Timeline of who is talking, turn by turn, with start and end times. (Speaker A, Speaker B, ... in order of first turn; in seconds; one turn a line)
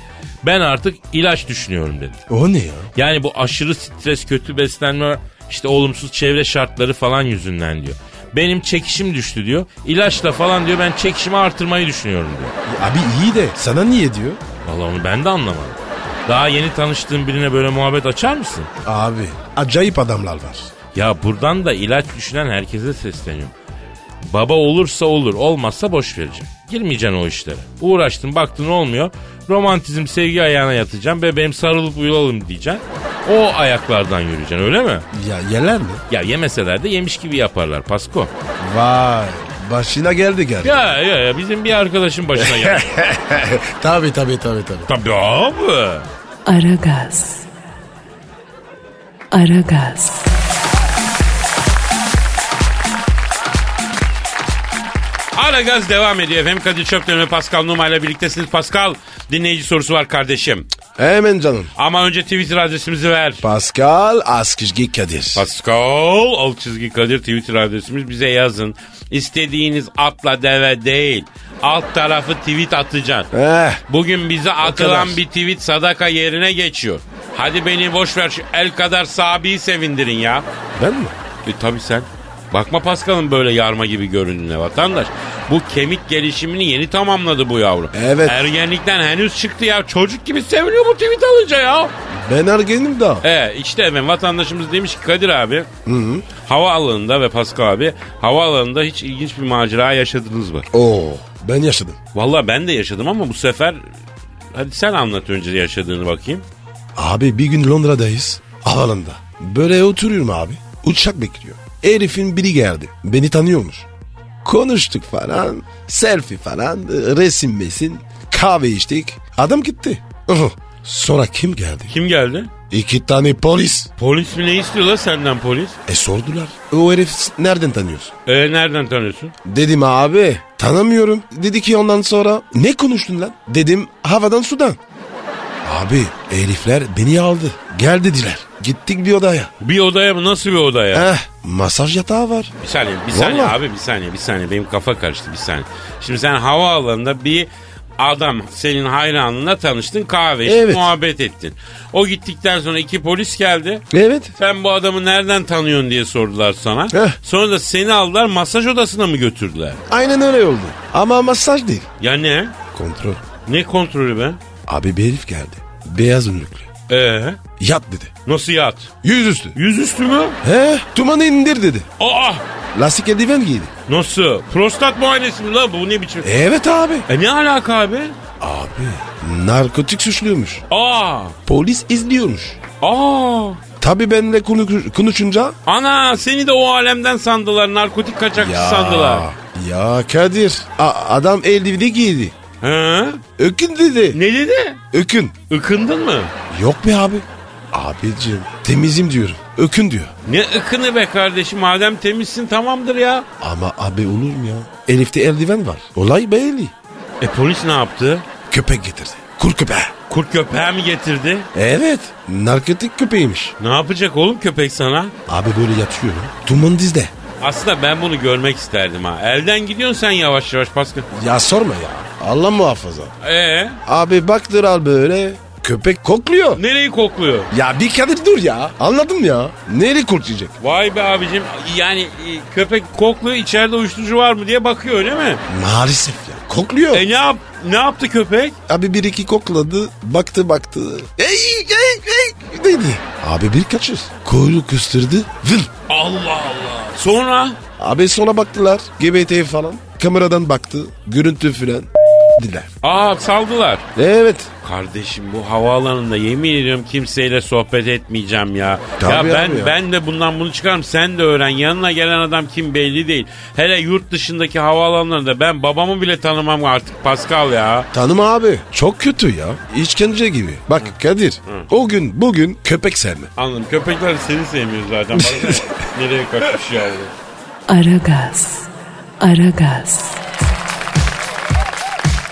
Speaker A: 0.4-2.2
Speaker B: 2.3-2.9
Speaker A: 3.0-12.5
Speaker B: 12.7-14.4
Speaker A: 14.6-18.7
Speaker B: 18.8-20.7
Speaker A: 20.9-23.5
Speaker A: 24.2-35.0
Speaker B: 35.1-36.0
Speaker A: 36.1-38.3
Speaker B: 38.6-40.7
Speaker A: 40.6-42.9
Speaker B: 42.4-44.9
Speaker A: 44.9-46.1
Speaker C: 46.5-47.5
Speaker C: 49.3-50.3
Speaker A: 55.4-60.7
Speaker B: 61.0-61.7
Speaker A: 61.8-63.4
Speaker B: 63.4-65.5
Speaker A: 65.3-73.3
Speaker B: 73.3-73.8
Speaker A: 73.9-80.5
Speaker B: 74.6-75.2
Speaker B: 80.8-81.1
Speaker A: 81.5-91.9
Speaker B: 87.9-88.5
Speaker B: 92.1-93.2
Speaker A: 93.2-95.7
Speaker B: 95.9-96.3
Speaker A: 96.4-100.7
Speaker B: 100.7-102.0
Speaker A: 102.2-103.8
Speaker A: 104.5-106.4
Speaker B: 107.0-113.9
Speaker B: 114.4-121.9
Speaker A: 121.9-122.5
Speaker B: 122.7-123.9
Speaker A: 124.0-125.8
Speaker B: 125.9-128.1
Speaker A: 128.3-129.3
Speaker B: 129.4-134.8
Speaker B: 135.6-139.5
Speaker A: 139.6-141.1
Speaker B: 140.9-142.5
Speaker A: 142.6-147.5
Speaker B: 143.1-143.6
Speaker A: 148.0-153.8
Speaker B: 150.4-150.9
Speaker B: 153.9-154.3
Speaker A: 154.4-159.8
Speaker B: 156.9-157.2
Speaker B: 159.9-161.9
Speaker A: 162.0-162.5
Speaker B: 162.7-163.2
Speaker A: 163.4-164.4
Speaker B: 164.7-166.7
Speaker A: 166.9-167.4
Speaker B: 167.6-168.1
Speaker A: 168.3-168.9
Speaker B: 169.0-169.6
Speaker A: 169.6-170.4
Speaker B: 170.4-171.9
Speaker A: 172.0-172.4
Speaker B: 172.7-173.7
Speaker A: 173.9-176.3
Speaker B: 176.2-177.1
Speaker A: 177.1-178.2
Speaker B: 178.4-180.6
Speaker A: 180.7-181.3
Speaker B: 181.5-182.6
Speaker A: 182.8-183.6
Speaker B: 183.8-185.6
Speaker A: 185.7-189.2
Speaker B: 188.4-192.3
Speaker A: 192.6-193.2
Speaker B: 193.4-194.2
Speaker A: 194.1-194.8
Speaker B: 194.9-195.4
Speaker A: 195.5-196.3
Speaker B: 196.5-200.1
Speaker A: 200.3-203.2
Speaker B: 203.4-206.7
Speaker A: 207.2-208.2
Speaker B: 208.5-209.9
Speaker A: 210.1-211.5
Speaker B: 211.5-213.5
Speaker A: 213.6-215.1
Speaker B: 215.3-217.1
Speaker A: 217.4-221.1
Speaker B: 221.1-223.1
Speaker A: 223.2-223.8
Speaker B: 223.9-226.6
Speaker A: 226.6-227.5
Speaker B: 227.5-230.6
Speaker A: 230.6-235.4
Speaker B: 235.5-237.1
Speaker A: 236.9-238.6
Speaker B: 238.7-245.7
Speaker A: 245.9-247.6
Speaker B: 247.8-252.7
Speaker A: 252.8-253.8
Speaker B: 254.0-254.5
Speaker A: 254.6-267.9
Speaker B: 259.0-259.8
Speaker B: 267.9-273.3
Speaker A: 273.4-277.1
Speaker B: 275.2-275.6
Speaker C: 277.7-278.7
Speaker C: 279.2-280.2